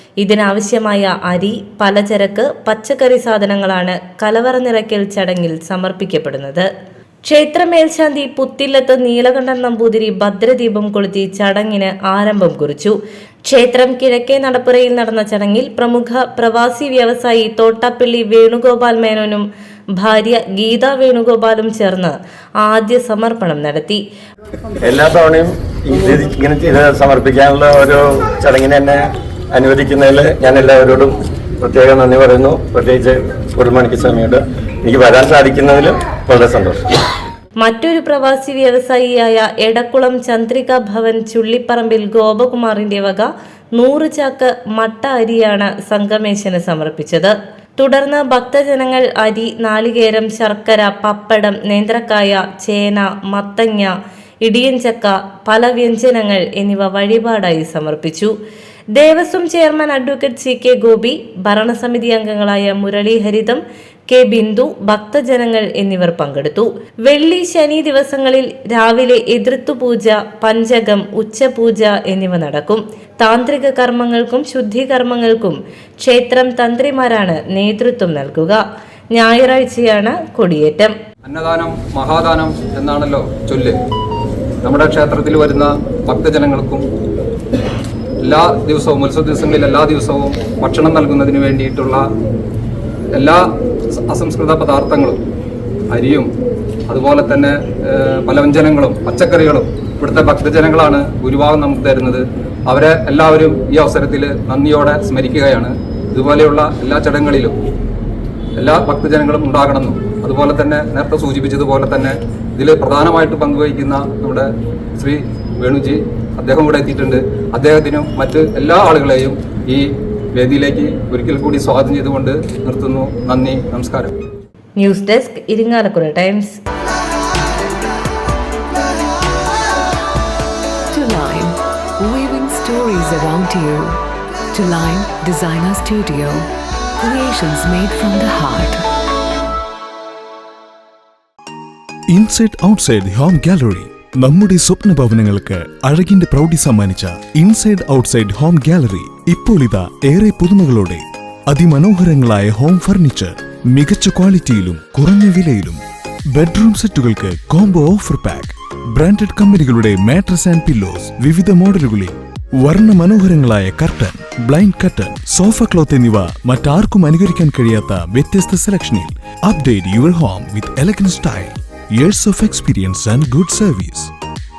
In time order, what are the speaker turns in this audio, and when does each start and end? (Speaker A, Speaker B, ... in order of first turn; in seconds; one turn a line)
Speaker A: 0.2-6.7
Speaker A: 7.3-12.9
Speaker A: 13.5-19.4
Speaker A: 20.0-24.0
Speaker B: 24.8-36.9
Speaker A: 37.6-53.9
Speaker A: 54.4-58.3
Speaker A: 59.0-78.6
Speaker A: 79.1-80.9
Speaker C: 81.2-83.8
Speaker C: 84.6-86.8
Speaker C: 88.2-92.0
Speaker C: 93.1-93.4
Speaker C: 93.9-95.2
Speaker C: 95.9-96.3
Speaker C: 96.9-107.5
Speaker C: 108.6-124.1
Speaker A: 124.8-126.5
Speaker D: 130.9-134.0
Speaker D: 134.5-136.5
Speaker D: 137.0-138.8
Speaker E: 142.1-155.8
Speaker E: 156.3-174.1